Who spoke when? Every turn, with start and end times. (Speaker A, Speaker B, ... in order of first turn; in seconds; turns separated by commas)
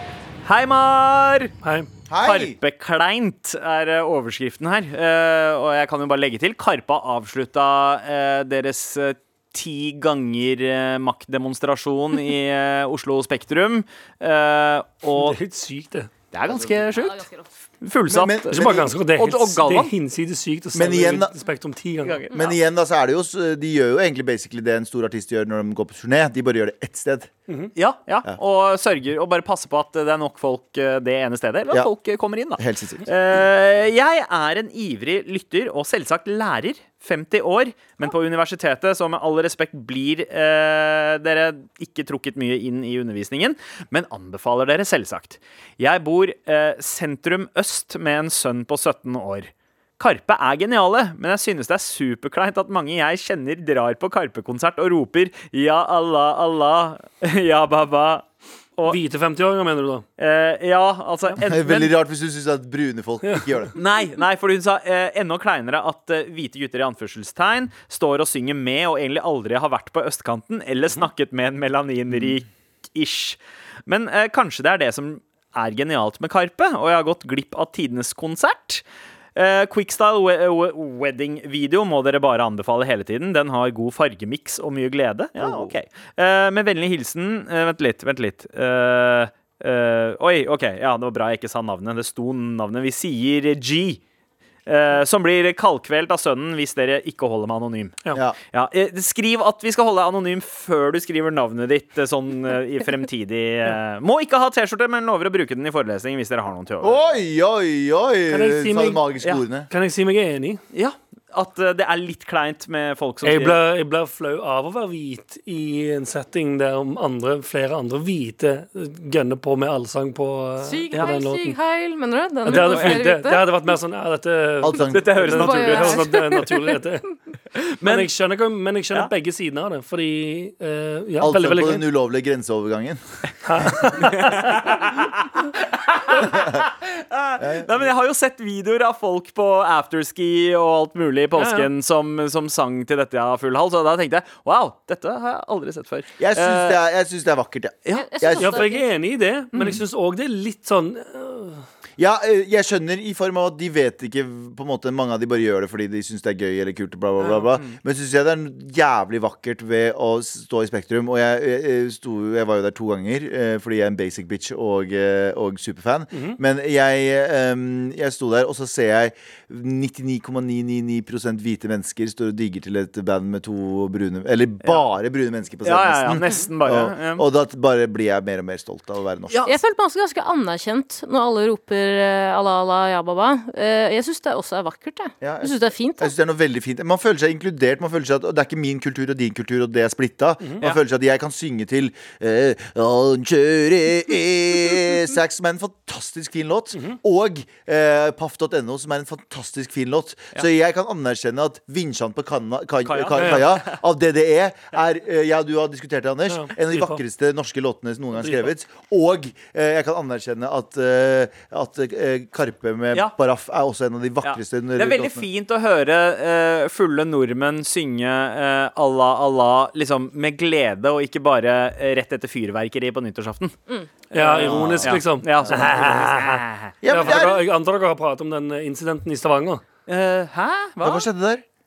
Speaker A: 0.4-1.5, Speaker B: 1.6-1.9, Speaker C: 2.1-2.5, Speaker A: 2.2-15.4, Speaker B: 15.1-16.1, Speaker A: 16.3-17.2, Speaker D: 16.9-17.4, Speaker A: 17.8-19.9, Speaker C: 18.1-18.9, Speaker B: 18.5-22.2, Speaker C: 20.7-21.3, Speaker A: 22.0-22.5, Speaker C: 22.3-27.3, Speaker A: 27.8-58.2, Speaker C: 32.6-33.1, Speaker B: 58.9-60.0, Speaker A: 60.2-61.9, Speaker C: 61.5-63.7, Speaker A: 63.8-78.8, Speaker A: 79.3-94.0, Speaker C: 85.4-85.7, Speaker A: 94.7-98.0, Speaker A: 98.5-107.0, Speaker C: 106.8-109.7, Speaker B: 108.3-109.0, Speaker B: 109.7-110.6, Speaker A: 110.7-113.6, Speaker B: 113.2-121.5, Speaker D: 120.6-123.5, Speaker B: 122.4-127.2, Speaker A: 122.5-123.0, Speaker C: 124.6-125.3, Speaker A: 124.9-126.0, Speaker D: 125.3-126.8, Speaker A: 127.8-128.1, Speaker B: 127.8-131.8, Speaker C: 131.2-133.0, Speaker B: 133.4-134.6, Speaker A: 134.1-146.8, Speaker C: 137.4-137.8, Speaker B: 141.3-141.7, Speaker C: 146.2-148.6, Speaker D: 147.9-148.9, Speaker B: 148.4-151.6, Speaker C: 152.0-179.5, Speaker B: 166.1-166.4, Speaker A: 175.6-177.2, Speaker D: 179.4-186.1, Speaker C: 185.2-215.2, Speaker A: 202.8-203.8, Speaker B: 203.1-203.5, Speaker B: 206.3-207.0, Speaker B: 208.2-208.5, Speaker A: 214.2-223.6, Speaker A: 224.1-227.2, Speaker B: 224.1-229.6, Speaker C: 224.3-225.7, Speaker C: 226.8-227.4, Speaker A: 229.9-231.1, Speaker C: 230.8-231.4